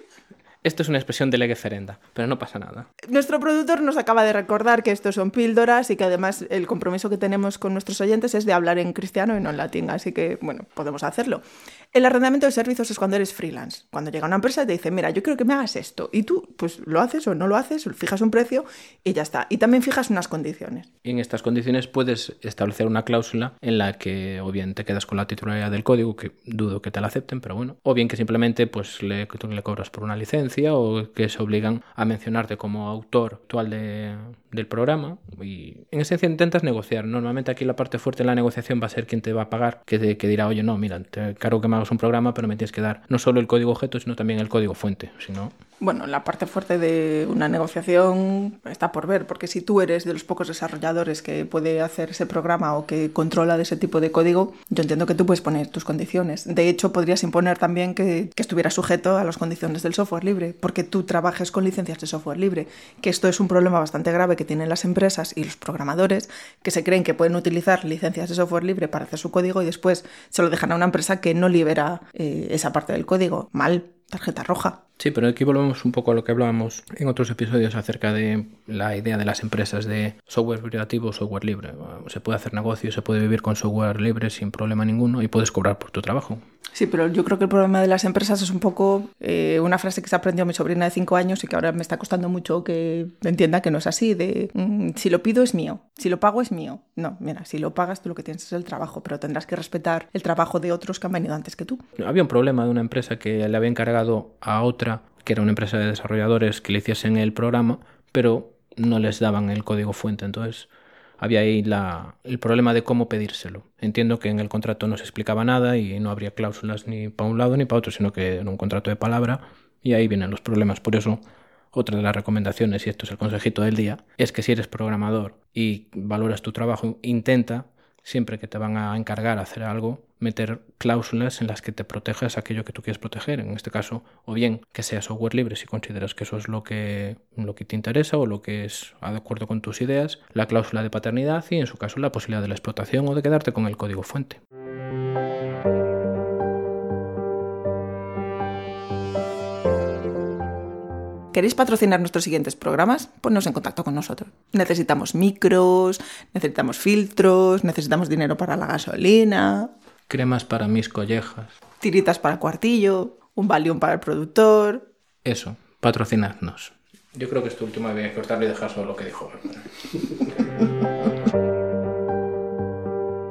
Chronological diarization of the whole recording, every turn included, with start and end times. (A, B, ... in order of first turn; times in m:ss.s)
0:00.6-0:02.9 A
0:03.1-0:20.9 B
0:21.0-0:45.5 A
0:45.8-1:14.8 B
1:15.0-1:26.4 A
1:26.7-1:41.8 B
1:42.0-2:01.2 A
2:01.7-2:24.4 A
2:31.3-2:39.7 B
2:40.1-2:41.6 A
2:41.8-2:44.8 B
2:45.2-2:50.2 A